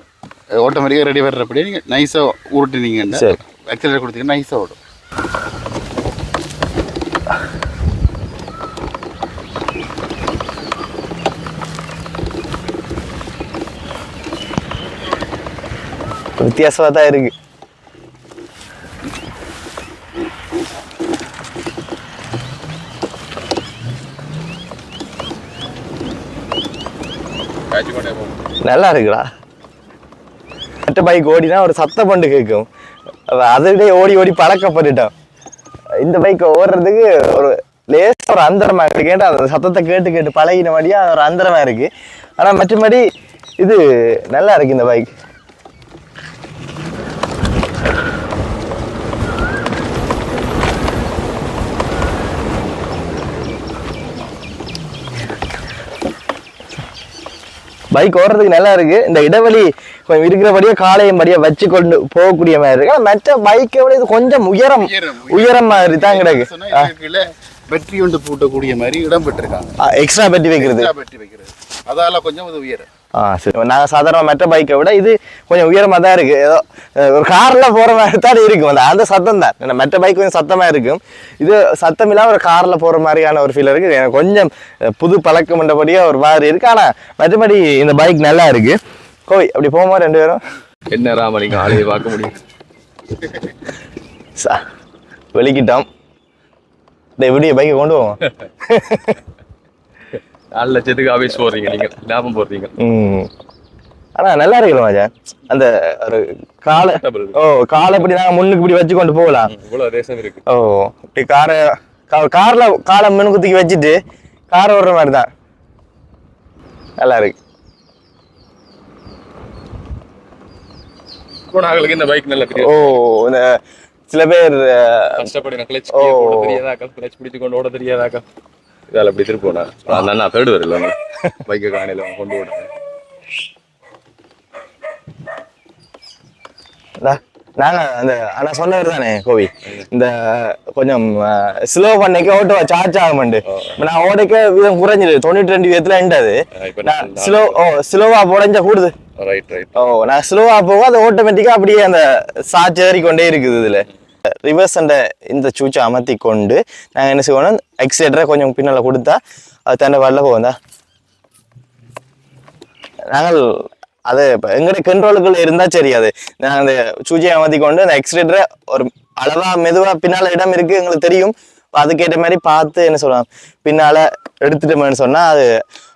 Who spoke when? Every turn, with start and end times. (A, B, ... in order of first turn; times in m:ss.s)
0:00.6-0:04.8 A
0:03.1-0:03.4 B
0:16.4-0:17.3 B
0:27.7-0:28.3 C
0:28.6-0:29.3 B
0:30.8-0:32.7 B
0:33.3-0:35.1 B
0:36.0-0:43.0 B
0:43.6-0:45.1 B
0:57.9-1:06.9 B
1:04.8-1:09.8 A
1:09.8-1:10.9 B
1:10.6-1:12.8 A
1:13.1-1:30.4 B
1:30.9-1:32.4 C
1:34.4-1:34.6 B
1:35.3-1:35.8 B
1:37.2-1:39.2 B
1:40.5-1:42.7 C
1:42.8-1:43.3 B
1:44.2-1:49.6 B
1:46.8-1:47.4 C
1:49.5-1:50.4 C
1:50.5-1:54.0 B
1:54.5-1:55.3 B
1:57.0-1:57.4 B
2:01.5-2:03.0 C
2:02.6-2:05.3 B
2:05.2-2:08.2 C
2:05.9-2:06.6 B
2:08.9-2:12.7 C
2:17.0-2:28.9 B
2:26.6-2:27.6 C
2:29.2-2:29.8 C
2:29.7-2:33.8 B
2:34.4-2:40.5 B
2:43.1-2:55.5 B